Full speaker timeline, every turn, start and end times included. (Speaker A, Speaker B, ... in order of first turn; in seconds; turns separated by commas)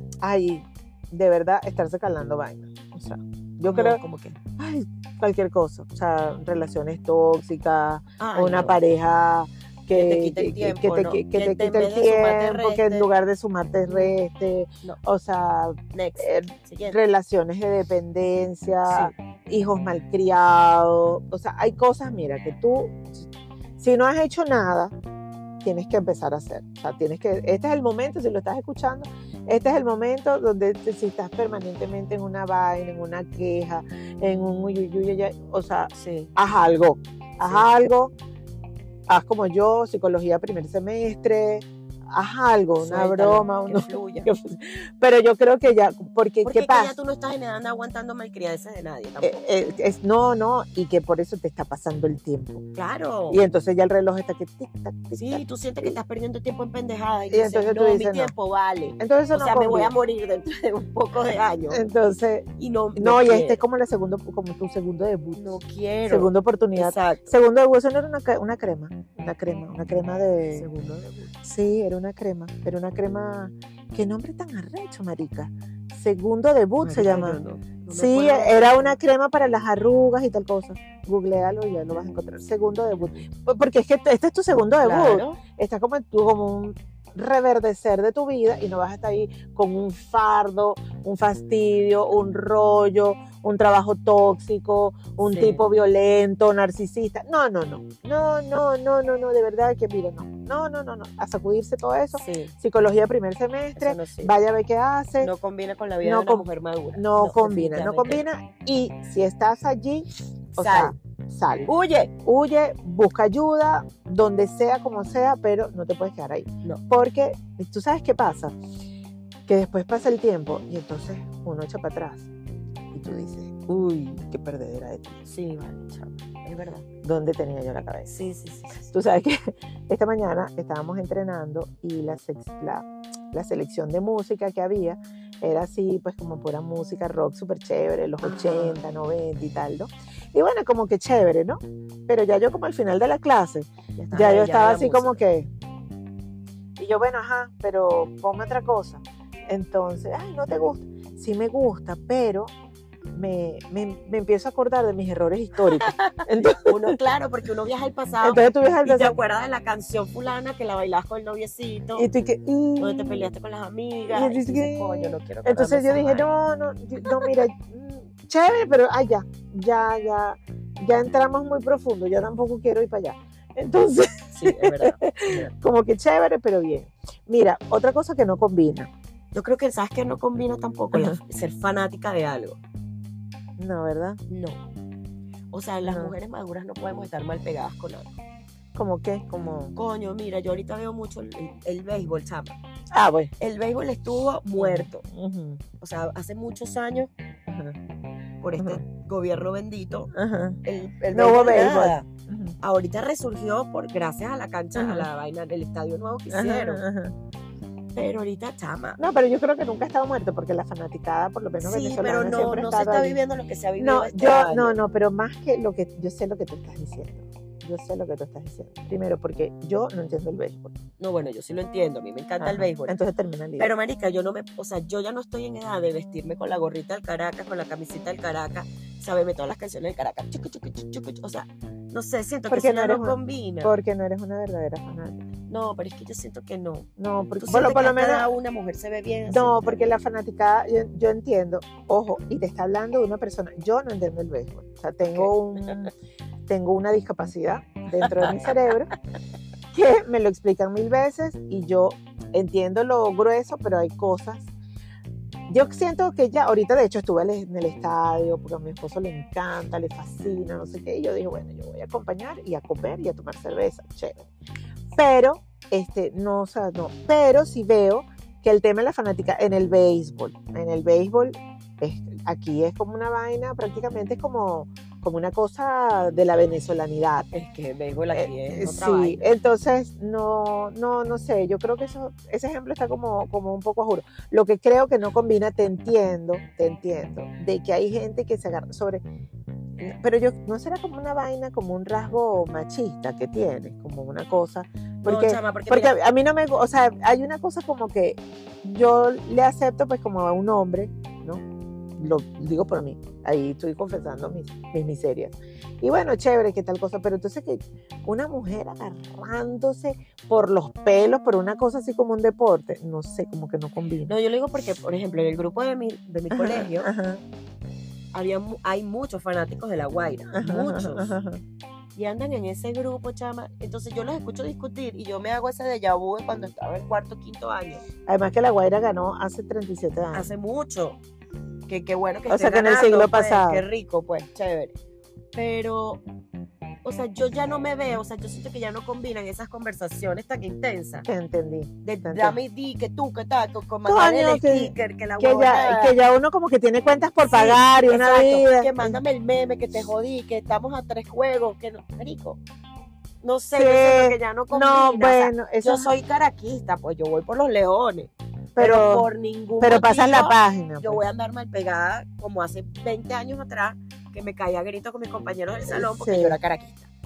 Speaker A: 0.2-4.0, Speaker B: 3.6-4.4, Speaker A: 4.6-24.9, Speaker B: 8.2-8.8, Speaker B: 9.9-13.1, Speaker B: 13.9-14.2, Speaker B: 15.9-17.0, Speaker B: 18.9-19.1, Speaker A: 25.6-38.1, Speaker B: 36.0-36.3, Speaker B: 37.4-37.8, Speaker A: 39.1-46.9, Speaker B: 42.8-44.3, Speaker B: 46.4-49.4, Speaker A: 49.2-52.6, Speaker B: 52.8-53.4, Speaker A: 53.3-56.0, Speaker B: 55.2-61.8, Speaker A: 57.3-58.3, Speaker A: 59.0-59.9, Speaker A: 61.7-65.6, Speaker B: 62.6-63.6, Speaker B: 65.4-67.3, Speaker A: 66.1-70.7, Speaker B: 70.5-71.3, Speaker A: 71.4-77.4, Speaker B: 76.8-79.0, Speaker A: 77.9-105.3, Speaker B: 84.8-85.4, Speaker B: 95.3-95.6, Speaker B: 102.2-102.5, Speaker B: 103.8-104.3, Speaker B: 105.2-108.2, Speaker A: 106.0-118.6, Speaker B: 110.6-111.0, Speaker B: 111.7-112.1, Speaker A: 119.5-122.3, Speaker A: 122.9-125.2, Speaker B: 125.3-126.8, Speaker A: 127.0-128.1, Speaker B: 128.1-128.9, Speaker A: 128.9-145.5, Speaker B: 138.2-138.8, Speaker B: 144.0-145.2, Speaker A: 146.8-152.5, Speaker A: 153.1-157.0, Speaker B: 155.6-162.1, Speaker A: 158.2-159.2, Speaker A: 161.9-163.3, Speaker B: 162.8-166.3, Speaker A: 164.1-178.9, Speaker B: 167.0-167.3, Speaker B: 174.3-175.5, Speaker B: 179.3-182.6, Speaker A: 183.6-184.2, Speaker B: 184.3-184.6, Speaker B: 185.5-188.2, Speaker A: 185.8-186.2, Speaker A: 188.8-189.8, Speaker B: 189.8-192.6, Speaker A: 192.9-193.3, Speaker B: 193.4-195.0, Speaker A: 194.6-195.6, Speaker B: 195.8-197.1, Speaker A: 197.5-197.8, Speaker B: 198.4-200.1, Speaker A: 200.1-200.6, Speaker B: 200.7-202.1, Speaker A: 201.1-202.6, Speaker B: 202.6-206.8, Speaker A: 204.8-205.1, Speaker A: 206.3-207.2, Speaker B: 207.9-209.0, Speaker A: 209.0-213.2, Speaker B: 211.6-214.8, Speaker A: 213.8-220.8, Speaker B: 221.0-223.0, Speaker A: 222.4-223.7, Speaker B: 223.6-233.7, Speaker A: 232.5-235.2, Speaker B: 235.5-236.9, Speaker A: 237.0-238.3, Speaker B: 237.4-239.9, Speaker A: 239.3-245.9, Speaker B: 245.1-245.9, Speaker A: 246.5-248.9, Speaker B: 248.0-248.6, Speaker A: 249.7-254.5, Speaker A: 255.5-264.3, Speaker A: 264.9-277.3, Speaker B: 277.3-279.3, Speaker A: 278.1-289.0, Speaker A: 289.8-301.4, Speaker B: 295.1-296.0, Speaker A: 302.0-314.1, Speaker B: 314.1-316.9, Speaker A: 316.3-317.2, Speaker B: 318.1-321.1, Speaker A: 320.3-321.4, Speaker B: 322.0-327.8, Speaker A: 328.1-330.3, Speaker B: 330.1-331.0, Speaker B: 331.7-334.7, Speaker A: 332.3-333.6, Speaker B: 335.3-336.0, Speaker B: 336.8-341.1, Speaker A: 341.1-342.4, Speaker B: 341.9-346.0, Speaker A: 343.9-349.0, Speaker B: 347.2-352.4, Speaker B: 353.2-366.9, Speaker A: 353.5-355.9, Speaker A: 358.6-359.1, Speaker A: 359.6-361.0, Speaker A: 365.6-366.4